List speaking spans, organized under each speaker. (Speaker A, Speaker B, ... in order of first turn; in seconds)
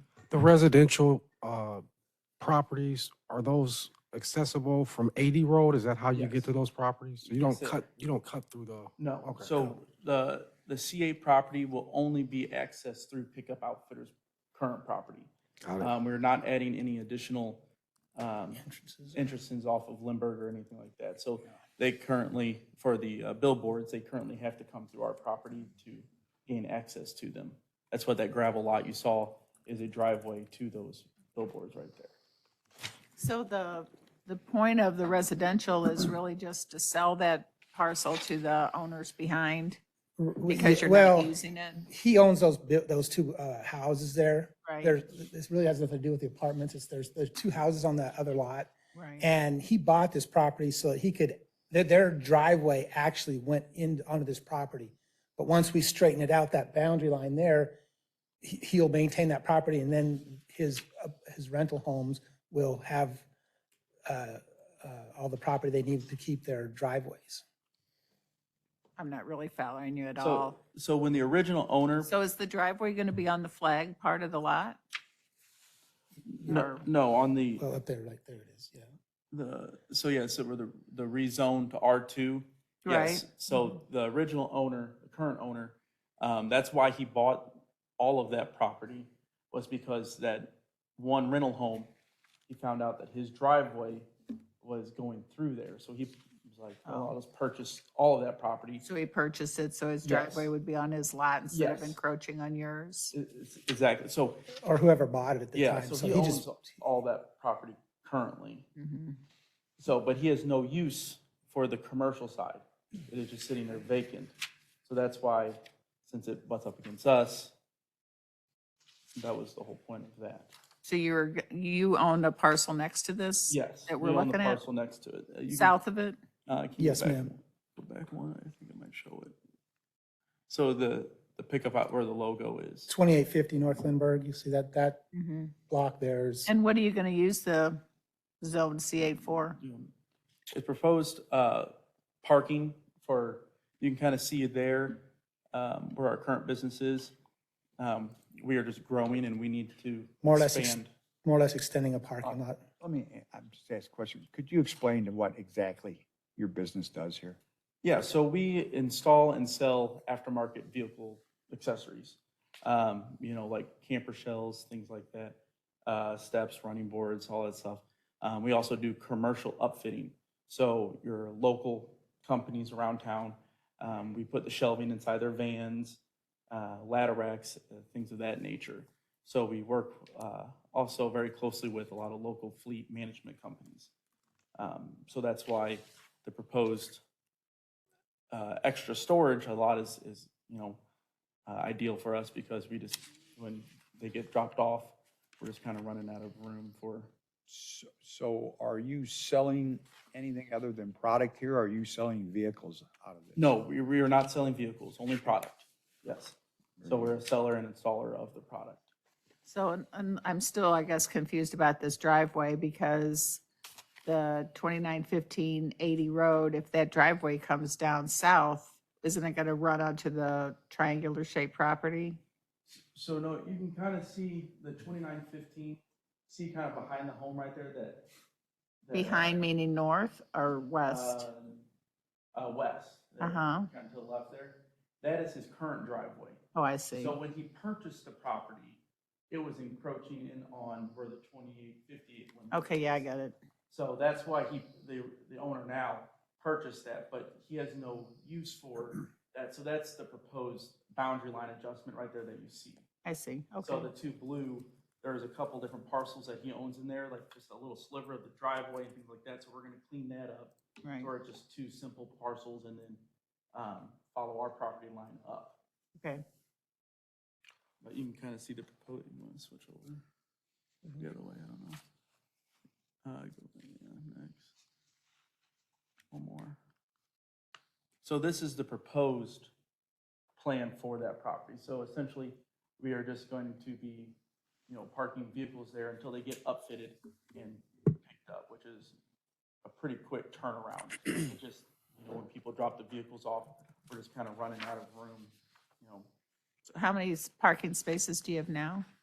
Speaker A: 0.3-1.9, 2.4-9.7, 15.6-15.9
Speaker B: 6.1-6.5, 7.2-7.8, 9.0-17.6, 18.2-18.6, 19.1-32.1, 70.2-72.1, 76.3-77.7, 79.3-91.9, 92.5-94.1, 94.6-98.8, 100.0-100.5, 101.5-102.0, 103.1-104.5, 105.5-108.7, 109.8-114.3, 114.8-117.5, 119.2-120.5, 123.5-125.8, 126.5-129.4, 130.5-132.9, 139.5-139.9, 140.5-147.2, 147.8-150.9, 157.8-183.9, 184.6-187.0, 188.3-190.8, 191.5-197.1, 203.4-208.9, 222.7-228.1, 228.9-229.4, 230.8-231.6, 232.3-236.4, 236.9-238.8, 239.3-243.0, 243.7-252.8, 253.6-263.0, 263.5-265.6, 267.8-270.0, 271.0-271.8, 273.0-274.5, 276.1-276.6, 278.0-279.5, 280.4-284.2, 284.7-289.0, 289.6-296.1
Speaker C: 18.6-19.2, 40.2-57.8, 58.4-63.2, 64.1-67.4, 77.6-78.9, 104.6-106.8, 126.8-127.3, 132.9-135.0, 135.7-136.5, 150.2-152.6
Speaker D: 33.2-39.8, 40.5-41.9, 44.6-44.9, 48.9-49.3, 69.0-70.6, 72.0-74.8, 76.5-76.8, 82.9-83.7, 96.9-97.2, 98.8-103.1, 108.8-109.2, 120.8-124.6, 125.5-126.2, 135.1-135.5, 136.5-137.8, 138.4-139.6, 209.4-213.4, 214.1-222.2, 228.9-231.3, 233.2-233.7, 236.6-237.2, 242.5-243.4, 253.1-253.9, 260.8-261.1, 266.0-266.2, 296.8-298.9
Speaker E: 152.8-157.4, 197.5-203.4, 206.8-207.1